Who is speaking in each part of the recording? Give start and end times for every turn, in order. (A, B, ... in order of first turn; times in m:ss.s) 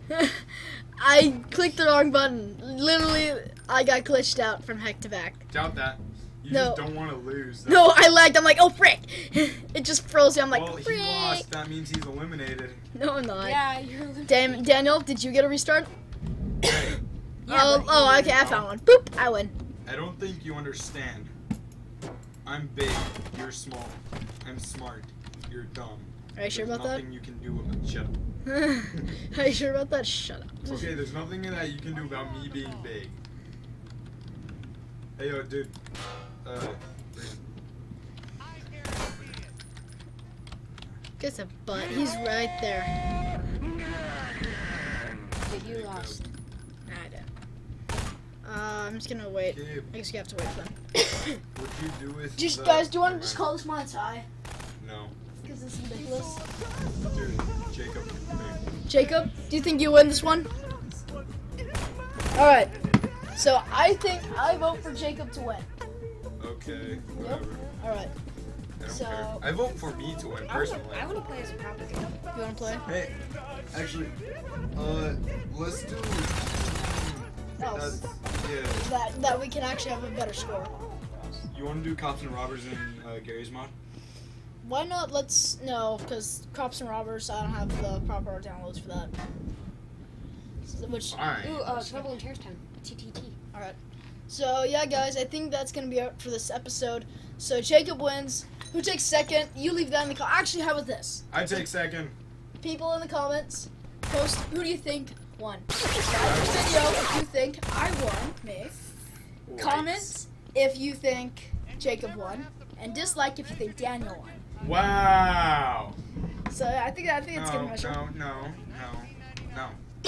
0:00.1-0:05.4 A
0:05.5-0:07.9 B
0:06.5-0:07.0 A
0:07.6-0:11.5 A
0:10.5-0:12.8 B
0:13.0-0:13.6 A
0:13.4-0:14.8 C
0:14.3-0:15.9 A
0:16.6-0:17.0 B
0:17.4-0:18.6 C
0:17.5-0:19.5 A
0:19.8-0:21.3 B
0:22.4-0:28.2 B
0:26.4-0:27.0 A
0:28.4-0:31.0 A
0:30.7-0:33.2 B
0:35.2-0:35.8 B
0:36.4-0:37.4 B
0:41.2-0:43.0 A
0:44.9-0:46.2 B
0:45.4-0:46.2 C
0:46.9-0:47.3 A
0:48.4-0:50.7 A
0:49.5-0:49.9 B
0:51.5-0:53.4 B
0:52.4-0:54.3 A
0:54.8-0:55.2 B
0:55.4-0:56.4 A
0:57.1-0:58.6 B
0:58.9-1:00.5 A
1:02.3-1:02.7 A
1:03.4-1:05.7 A
1:06.4-1:07.6 B
1:07.0-1:08.1 A
1:08.8-1:11.1 B
1:08.9-1:09.5 A
1:10.5-1:12.2 C
1:12.3-1:12.8 A
1:12.8-1:13.1 B
1:13.7-1:14.2 B
1:14.8-1:18.9 B
1:17.6-1:18.0 A
1:18.7-1:20.8 A
1:21.5-1:23.7 B
1:24.6-1:29.1 A
1:30.6-1:32.1 A
1:31.1-1:31.7 B
1:31.4-1:33.4 C
1:34.3-1:41.7 A
1:41.3-1:42.2 B
1:42.6-1:48.9 A
1:46.2-1:46.9 B
1:49.5-1:50.1 B
1:49.6-1:54.4 A
1:54.6-1:56.0 B
1:56.5-1:58.2 A
1:57.3-1:59.8 B